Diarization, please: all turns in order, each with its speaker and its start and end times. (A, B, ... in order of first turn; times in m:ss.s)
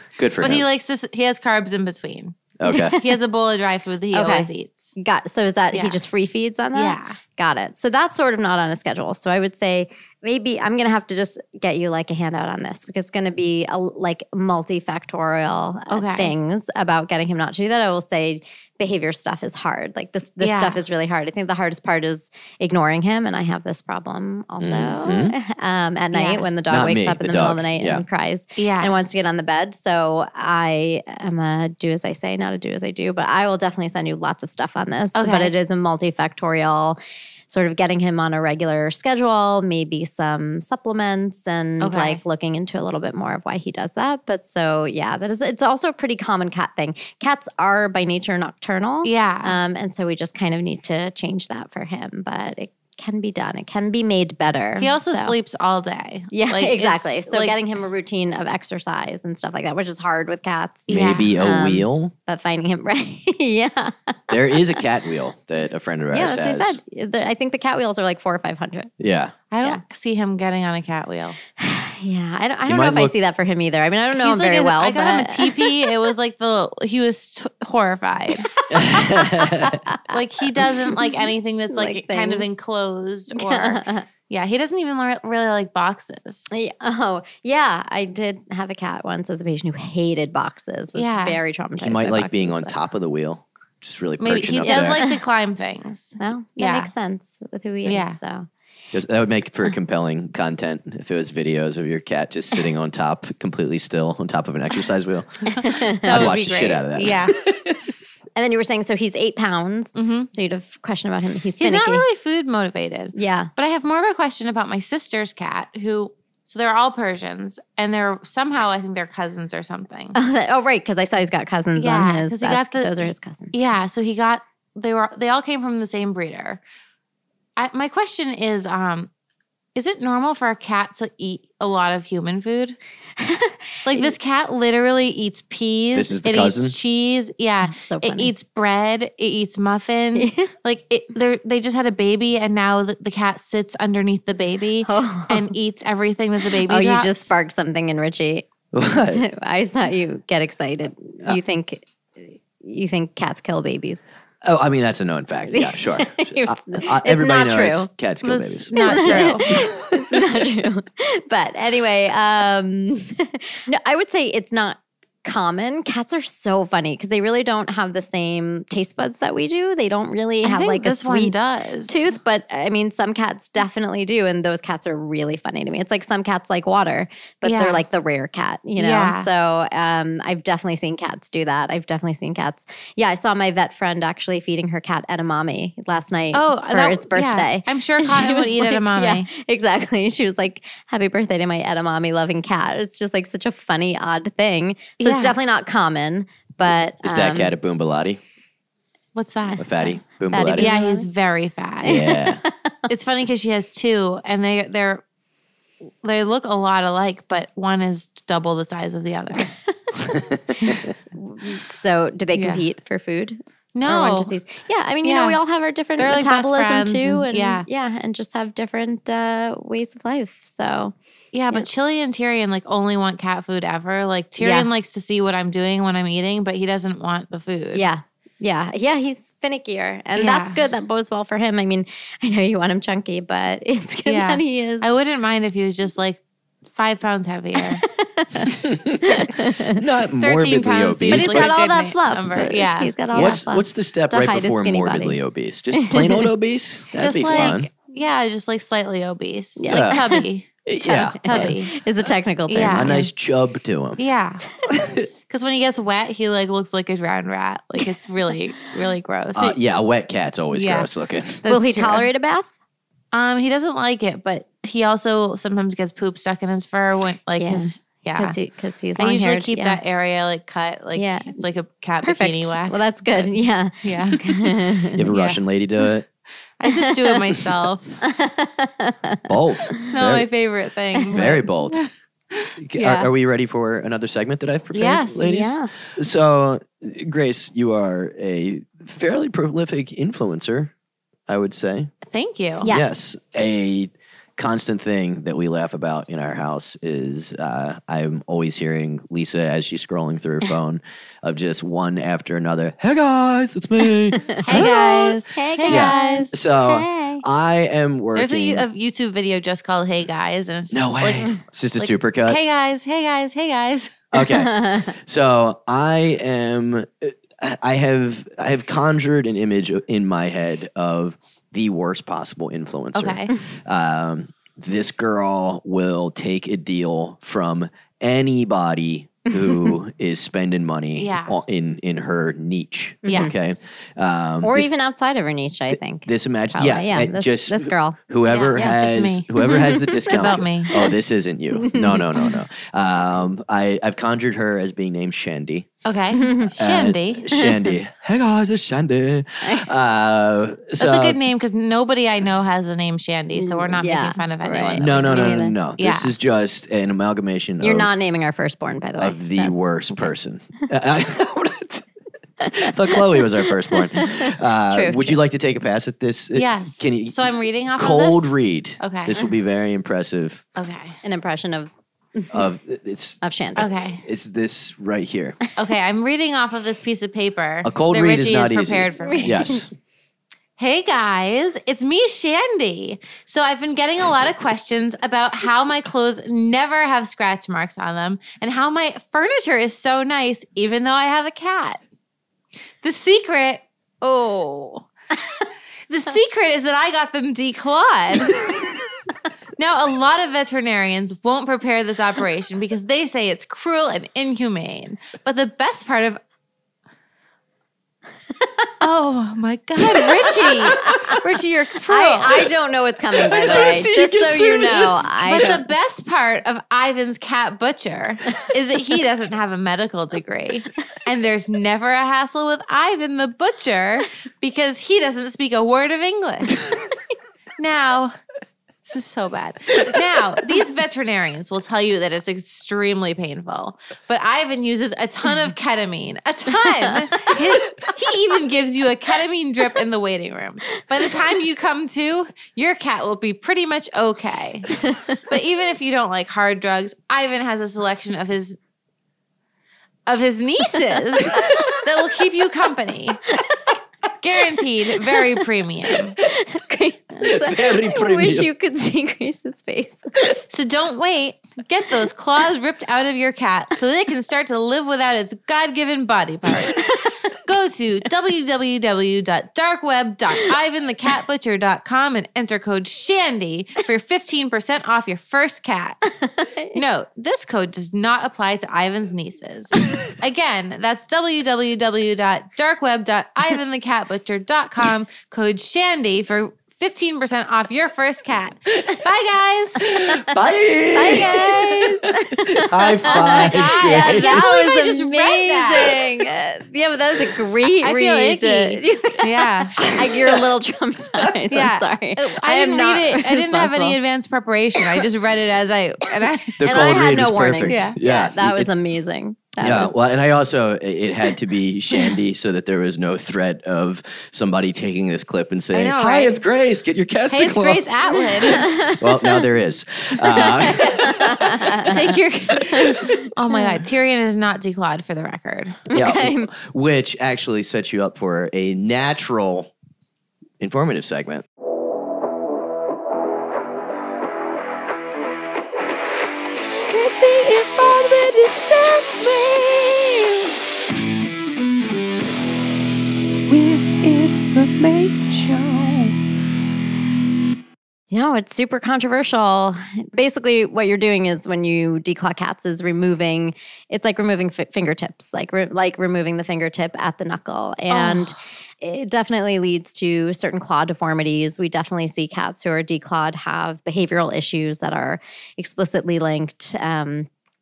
0:00.2-0:00.6 A
0:00.4-0:02.4 B
0:02.6-0:03.0 A
0:02.7-0:03.1 C
0:02.9-0:04.9 B
0:04.1-0:55.3 C
0:05.7-0:06.0 B
0:06.7-0:07.2 B
0:15.9-0:16.3 B
0:20.4-0:20.8 B
0:24.6-0:25.3 A
0:26.1-0:26.5 B
0:26.7-0:28.0 A
0:28.6-0:28.9 B
0:35.1-0:35.5 B
0:41.8-0:42.2 B
0:49.0-0:49.6 B
0:54.8-0:57.5 B
0:56.3-1:04.8 C
1:00.9-1:01.3 B
1:00.9-1:02.1 A
1:04.3-1:06.8 A
1:06.1-1:08.9 C
1:09.0-1:09.3 A
1:09.5-1:11.4 B
1:11.6-1:15.9 C
1:12.7-1:13.1 A
1:14.1-1:18.6 B
1:18.6-1:22.5 C
1:18.7-1:19.8 A
1:20.1-1:26.5 B
1:23.3-1:24.0 C
1:26.5-1:32.7 C
1:30.9-1:31.4 B
1:31.8-1:35.0 A
1:34.2-1:36.9 B
1:34.6-1:35.2 C
1:36.2-1:38.5 C
1:37.8-1:38.2 B
1:38.9-1:47.7 A
1:45.6-1:46.3 C
1:45.6-1:47.3 B
1:48.4-1:52.0 C
1:50.0-1:50.3 B
1:51.6-2:00.2 B
1:53.1-1:53.5 C
2:00.1-2:03.6 C
2:01.7-2:06.6 B
2:07.6-2:09.1 B
2:09.7-2:12.8 B
2:13.2-2:14.1 C
2:13.8-2:27.3 B
2:15.9-2:16.8 A
2:17.6-2:18.3 C
2:20.2-2:20.5 C
2:24.8-2:25.5 C
2:26.6-2:34.1 C
2:28.7-2:29.2 A
2:34.4-2:40.0 A
2:35.5-2:37.9 C
2:38.2-2:39.5 B
2:38.7-2:51.3 C
2:50.4-2:52.1 B
2:51.9-3:17.5 C
2:57.4-2:57.8 B
2:58.8-2:59.3 B
3:06.3-3:09.3 B
3:15.0-3:15.4 B
3:17.0-3:18.2 A
3:19.1-3:19.7 B
3:19.6-3:20.7 A
3:19.8-3:21.1 C
3:20.6-3:22.1 B
3:21.8-3:22.9 C
3:21.8-3:22.4 A
3:22.9-3:25.0 B
3:26.0-3:29.5 B
3:30.0-3:30.9 A
3:31.1-3:40.9 C
3:32.3-3:32.6 B
3:33.7-3:34.3 B
3:35.0-3:35.4 B
3:36.0-3:37.6 B
3:41.3-3:47.8 B
3:44.4-3:44.7 C
3:47.7-3:54.9 C
3:50.2-3:50.6 B
3:54.1-3:57.8 B
3:57.6-3:59.8 C
3:58.5-4:01.5 A
4:00.2-4:03.4 B
4:01.1-4:05.2 C
4:03.1-4:07.7 A
4:05.7-4:06.3 C
4:06.9-4:11.7 B
4:09.6-4:10.2 C
4:09.7-4:10.0 A
4:10.6-4:11.5 A
4:10.8-4:13.1 C
4:12.5-4:13.1 B
4:12.6-4:14.0 A
4:14.0-4:14.5 B
4:14.7-4:15.1 A
4:15.3-4:19.6 B
4:19.3-4:21.4 A
4:20.5-4:20.9 B
4:21.4-4:22.1 B
4:21.4-4:22.5 C
4:23.1-4:28.4 B
4:27.4-4:29.8 C
4:29.0-4:33.3 B
4:30.9-4:31.4 C
4:32.0-4:35.0 C
4:33.8-4:34.5 B
4:34.9-4:36.1 A
4:35.1-4:35.4 B
4:36.6-4:38.0 B
4:36.6-4:37.3 C
4:38.0-4:39.9 C
4:39.3-4:40.3 A
4:39.8-4:43.1 B
4:41.0-4:41.4 C
4:41.1-4:41.8 A
4:42.6-4:50.7 A
4:44.7-4:45.4 B
4:45.2-4:45.7 C
4:51.3-4:51.9 A
4:52.0-4:52.7 B
4:52.6-4:53.0 C
4:52.6-5:05.0 A
5:04.1-5:07.2 C
5:04.4-5:06.4 B
5:05.6-5:08.6 A
5:08.1-5:14.1 B
5:10.7-5:12.4 A
5:14.1-5:34.7 A
5:14.3-5:14.8 C
5:22.9-5:23.3 B
5:29.3-5:29.7 C
5:31.0-5:31.4 B
5:33.0-5:33.5 C
5:33.0-5:33.4 B
5:34.4-5:38.0 C
5:35.7-5:45.7 A
5:38.2-5:40.7 B
5:39.4-5:40.9 C
5:41.5-5:42.4 C
5:45.8-5:47.4 B
5:46.1-5:46.5 C
5:46.6-5:51.2 A
5:47.3-5:47.7 C
5:49.4-5:49.7 C
5:50.8-5:56.1 B
5:53.3-5:55.6 C
5:54.8-5:57.9 A
5:57.6-5:59.5 C
5:59.0-6:01.8 A
6:02.4-6:05.2 C
6:02.5-6:10.4 A
6:06.3-6:09.2 B
6:10.6-6:11.0 B
6:11.0-6:12.5 C
6:12.3-6:13.2 A
6:13.2-6:13.7 C
6:13.6-6:14.0 B
6:14.0-6:15.4 A
6:15.6-6:19.6 B
6:17.6-6:19.7 A
6:19.0-6:19.6 C
6:20.6-6:31.8 B
6:32.8-6:34.9 B
6:35.9-6:38.6 B
6:39.6-6:46.2 B
6:48.8-6:52.4 B
6:50.4-6:51.0 C
6:51.8-6:55.7 C
6:53.1-6:55.0 A
6:53.4-6:53.9 B
6:55.2-7:06.6 B
7:07.6-7:08.1 B
7:08.8-7:28.6 B
7:16.5-7:17.5 C
7:24.8-7:25.2 C
7:30.1-7:33.2 B
7:31.3-7:31.6 C
7:34.2-7:36.2 B
7:36.2-7:40.1 C
7:37.2-7:38.5 A
7:40.5-7:56.1 B
7:56.2-7:56.8 C
7:56.7-8:10.0 B
8:09.8-8:14.5 A
8:10.9-8:24.0 C
8:13.0-8:16.1 B
8:17.8-8:19.8 B
8:21.5-8:26.7 B
8:26.6-8:28.7 A
8:26.6-8:30.0 C
8:27.7-8:28.0 B
8:29.6-8:37.8 A
8:35.7-8:36.4 B
8:37.3-8:38.7 B
8:38.1-8:39.5 C
8:38.6-8:42.0 A
8:40.3-8:42.0 C
8:41.2-8:45.8 B
8:42.7-8:43.0 A
8:42.7-8:43.8 C
8:45.9-8:46.5 C
8:45.9-8:49.7 A
8:50.6-8:51.4 A
8:56.9-9:00.5 A
9:03.5-9:06.1 A
9:08.1-9:27.3 C
9:17.9-9:18.3 B